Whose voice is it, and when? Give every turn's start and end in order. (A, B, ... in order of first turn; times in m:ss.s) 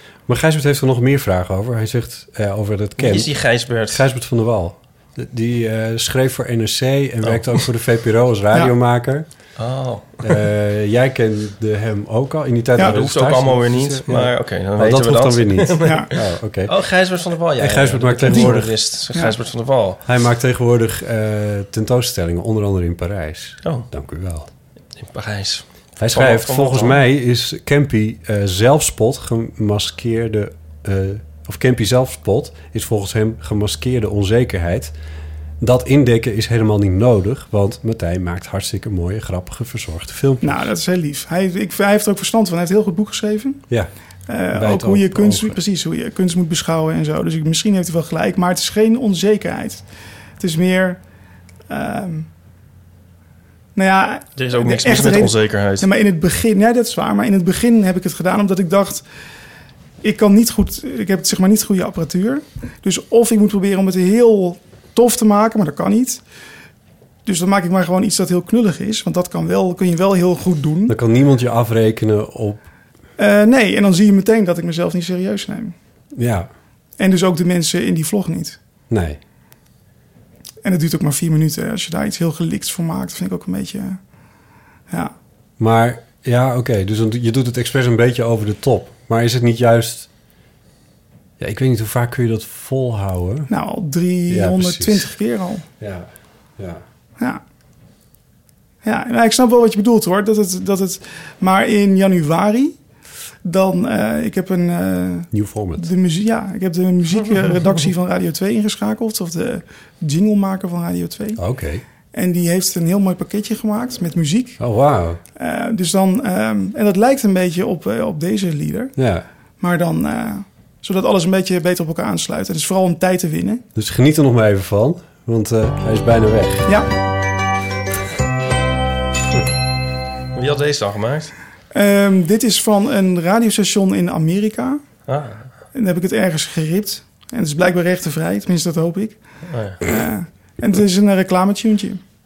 0:00.3-0:09.3 A
0:03.0-0:04.0 B
0:07.2-0:07.6 B
0:09.6-0:10.3 B
0:10.2-0:16.8 A
0:12.8-0:20.0 B
0:17.6-0:18.8 A
0:18.3-0:18.6 C
0:20.0-0:24.5 A
0:25.0-0:27.0 B
0:26.0-0:34.9 A
0:35.6-0:40.7 A
0:40.4-0:43.6 C
0:44.3-0:49.8 C
0:44.5-0:45.6 A
0:50.4-0:51.0 C
0:51.7-0:52.3 C
0:53.8-0:59.0 C
0:54.4-0:55.9 B
1:00.0-1:06.2 C
1:07.3-1:11.0 C
1:10.9-1:12.6 A
1:13.2-1:15.8 C
1:16.1-1:16.5 A
1:17.0-1:18.6 C
1:18.9-1:19.2 A
1:20.6-1:24.0 C
1:25.6-1:30.1 A
1:31.4-1:33.5 A
1:33.5-1:35.6 C
1:34.3-1:35.1 A
1:35.8-1:36.8 A
1:38.8-1:42.8 C
1:43.4-1:51.4 C
1:45.3-1:45.9 A
1:51.4-1:51.8 A
1:52.1-1:54.6 C
1:54.6-1:55.2 A
1:55.4-1:59.0 C
1:59.0-1:59.2 A
1:59.6-2:03.6 C
2:03.8-2:06.7 A
2:10.3-2:11.3 B
2:11.7-2:14.8 C
2:15.1-2:15.5 B
2:15.7-2:19.2 C
2:19.5-2:19.8 B
2:19.8-2:22.0 C